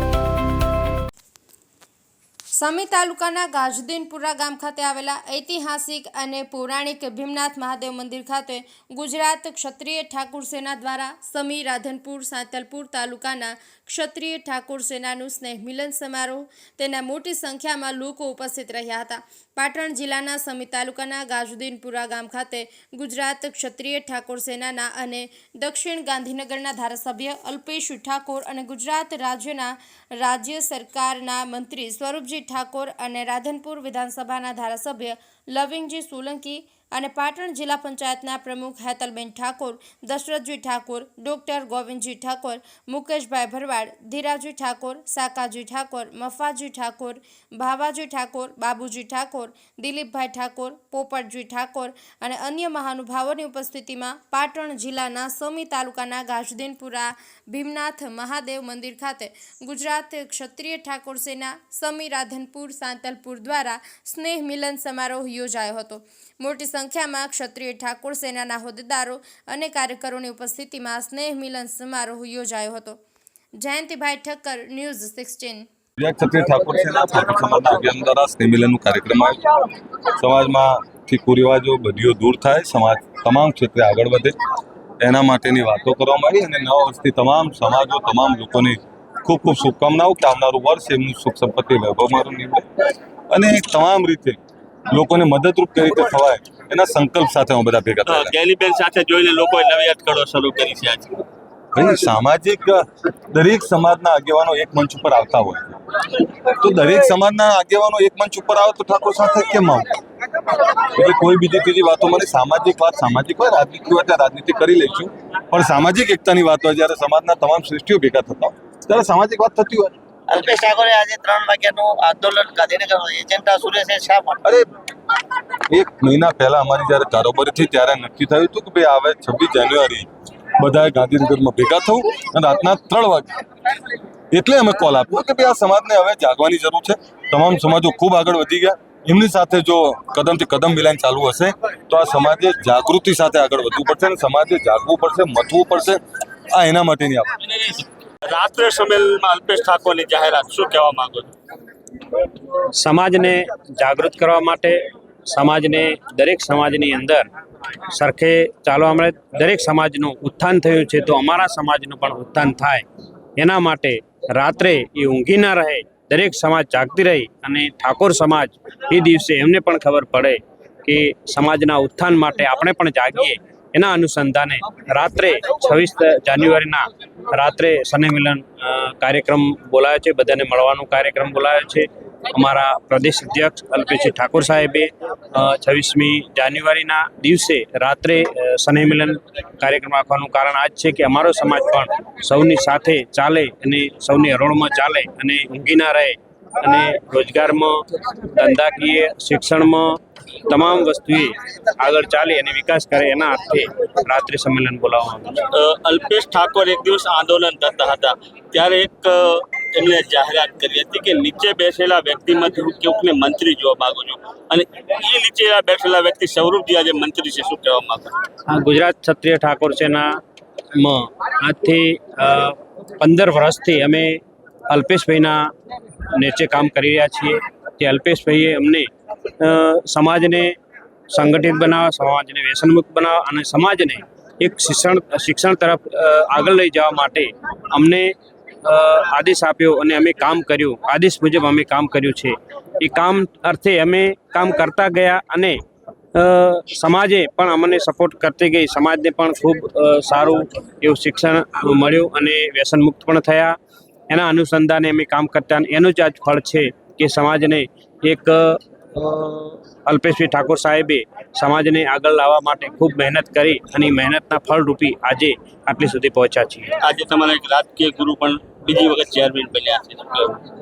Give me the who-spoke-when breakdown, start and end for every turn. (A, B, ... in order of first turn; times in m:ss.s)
0:02.5-1:13.0 A
1:13.6-1:15.7 A
1:16.0-1:24.4 B
1:25.0-1:32.7 B
1:33.3-1:34.4 B
1:34.9-1:38.3 B
1:38.1-1:41.1 C
1:41.7-1:45.8 B
1:46.4-1:50.0 B
1:50.9-1:59.9 B
2:00.3-2:04.4 D
2:05.7-2:10.1 B
2:10.6-2:13.4 B
2:14.3-2:27.4 B
2:28.4-2:28.7 C
2:29.2-2:31.2 C
2:32.7-2:37.3 E
2:37.9-2:42.8 E
2:43.4-3:25.4 E
3:25.6-3:38.0 C
3:38.5-3:40.2 E
3:40.8-3:45.5 E
3:46.1-3:48.9 E
3:49.4-3:50.6 E
3:51.1-3:58.1 E
3:58.6-4:05.6 E
4:06.2-4:13.6 E
4:14.1-4:26.7 E
4:26.8-4:30.3 C